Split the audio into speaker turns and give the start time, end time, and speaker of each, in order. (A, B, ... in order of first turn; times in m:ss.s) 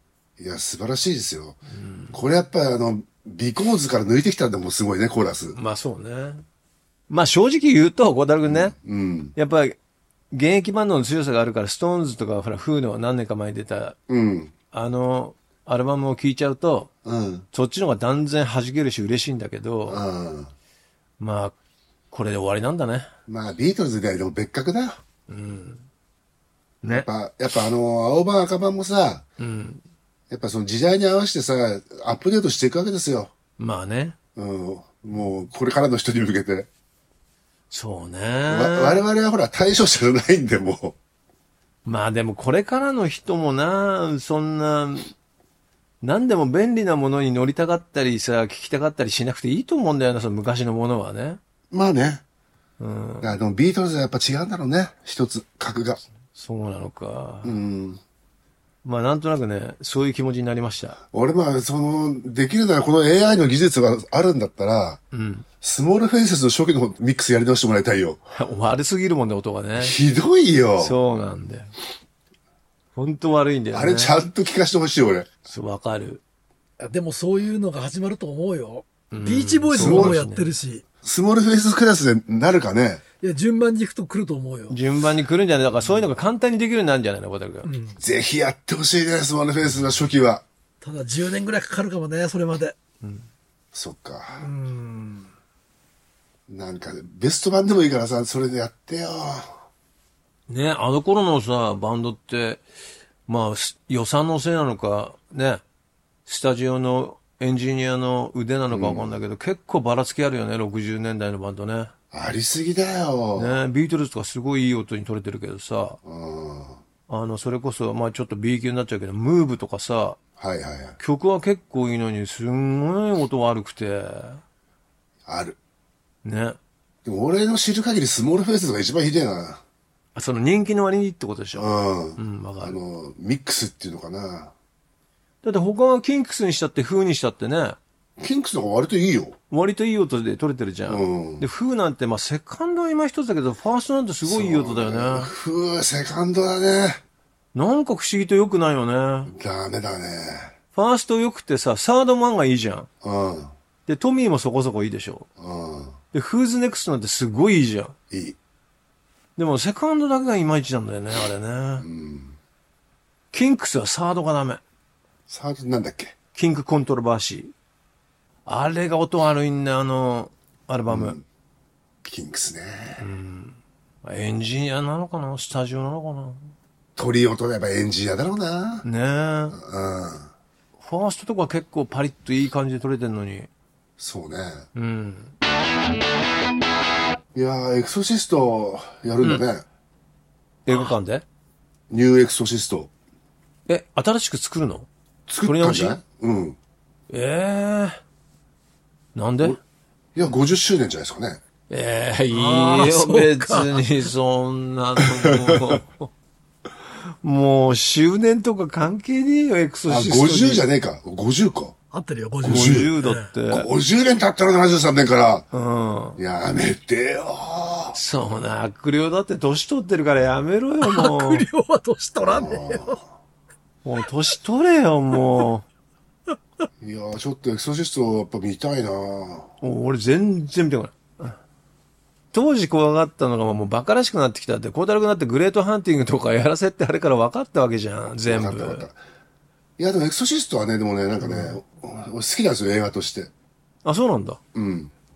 0:00.4-0:01.6 A
0:01.7-0:02.2 B
0:02.1-0:05.6 A
0:05.5-0:06.4 B
0:07.1-0:08.7 B
0:08.5-0:09.3 A
0:09.4-0:09.8 B
0:10.3-0:14.0 B
0:14.1-0:14.5 A
0:14.7-0:16.9 B
0:17.0-0:17.4 A
0:17.5-0:20.0 B
0:19.9-0:20.5 A
0:21.2-0:21.5 B
0:22.1-0:23.1 B
0:23.3-0:25.0 A
0:25.3-0:25.8 B
0:26.8-0:27.1 B
0:26.9-0:29.2 A
0:29.4-0:29.8 B
0:30.3-0:33.3 A
0:33.6-0:34.2 B
0:34.4-0:36.7 A
0:37.7-0:39.0 B
0:38.5-0:41.0 A
0:41.8-0:45.1 B
0:46.0-0:51.4 B
0:51.7-0:52.2 A
0:52.8-0:53.3 B
0:53.2-0:56.0 A
0:56.3-0:57.6 B
0:57.4-0:58.0 A
0:58.8-1:01.0 B
1:01.1-1:05.0 A
1:05.1-1:05.4 B
1:05.6-1:08.2 A
1:08.3-1:10.0 B
1:09.8-1:10.9 A
1:10.8-1:11.7 B
1:12.9-1:14.1 B
1:13.7-1:15.3 A
1:15.4-1:16.2 B
1:16.8-1:20.8 C
1:19.1-1:20.5 B
1:19.7-1:20.2 A
1:21.0-1:23.0 A
1:23.2-1:24.8 C
1:24.7-1:27.7 B
1:27.6-1:28.0 C
1:28.0-1:30.4 A
1:30.8-1:32.8 C
1:33.0-1:33.3 B
1:33.7-1:34.5 A
1:34.4-1:35.3 C
1:36.5-1:39.6 A
1:40.5-1:42.6 B
1:43.3-1:45.6 B
1:46.2-1:51.9 B
1:48.7-1:49.1 A
1:52.1-1:53.6 A
1:53.4-1:56.0 B
1:56.0-1:56.8 A
1:57.1-2:00.2 B
2:00.4-2:01.0 A
2:01.0-2:04.4 B
2:05.2-2:05.6 A
2:06.2-2:06.6 B
2:07.0-2:09.6 A
2:10.1-2:12.8 B
2:11.6-2:14.5 A
2:15.4-2:17.8 B
2:18.2-2:19.4 A
2:19.5-2:25.3 B
2:20.9-2:21.4 A
2:24.2-2:27.0 A
2:27.5-2:29.3 B
2:29.3-2:30.5 A
2:30.7-2:32.9 B
2:33.0-2:33.5 A
2:33.8-2:35.3 B
2:35.4-2:36.0 A
2:36.1-2:38.0 B
2:38.1-2:38.4 A
2:39.4-2:41.8 B
2:41.8-2:42.4 A
2:43.3-2:44.6 B
2:45.3-2:46.1 A
2:46.3-2:47.5 B
2:48.4-2:51.2 B
2:50.9-2:51.2 A
2:52.0-2:53.0 A
2:53.0-2:56.5 B
2:57.0-2:58.8 A
2:58.8-2:59.6 B
2:59.5-3:00.3 A
3:00.8-3:03.5 B
3:04.0-3:04.7 A
3:04.7-3:05.3 B
3:07.3-3:09.6 A
3:10.6-3:11.2 B
3:11.9-3:12.9 A
3:13.7-3:14.9 B
3:15.3-3:16.6 A
3:15.4-3:16.0 B
3:17.1-3:18.0 B
3:19.1-3:19.6 B
3:20.1-3:21.4 A
3:21.7-3:26.1 B
3:22.3-3:23.9 C
3:25.0-3:25.8 A
3:27.0-3:30.6 B
3:29.9-3:31.7 A
3:31.9-3:33.3 C
3:32.4-3:32.9 A
3:32.4-3:33.7 B
3:33.5-3:35.4 A
3:35.5-3:36.2 B
3:36.2-3:38.0 A
3:37.9-3:41.5 B
3:40.8-3:43.0 C
3:42.2-3:43.1 A
3:43.8-3:45.6 B
3:46.8-3:49.5 A
3:49.6-3:51.4 B
3:52.3-3:58.8 B
3:58.2-3:59.0 A
3:59.8-4:03.3 A
4:01.2-4:01.6 B
4:03.8-4:04.4 B
4:04.5-4:04.9 A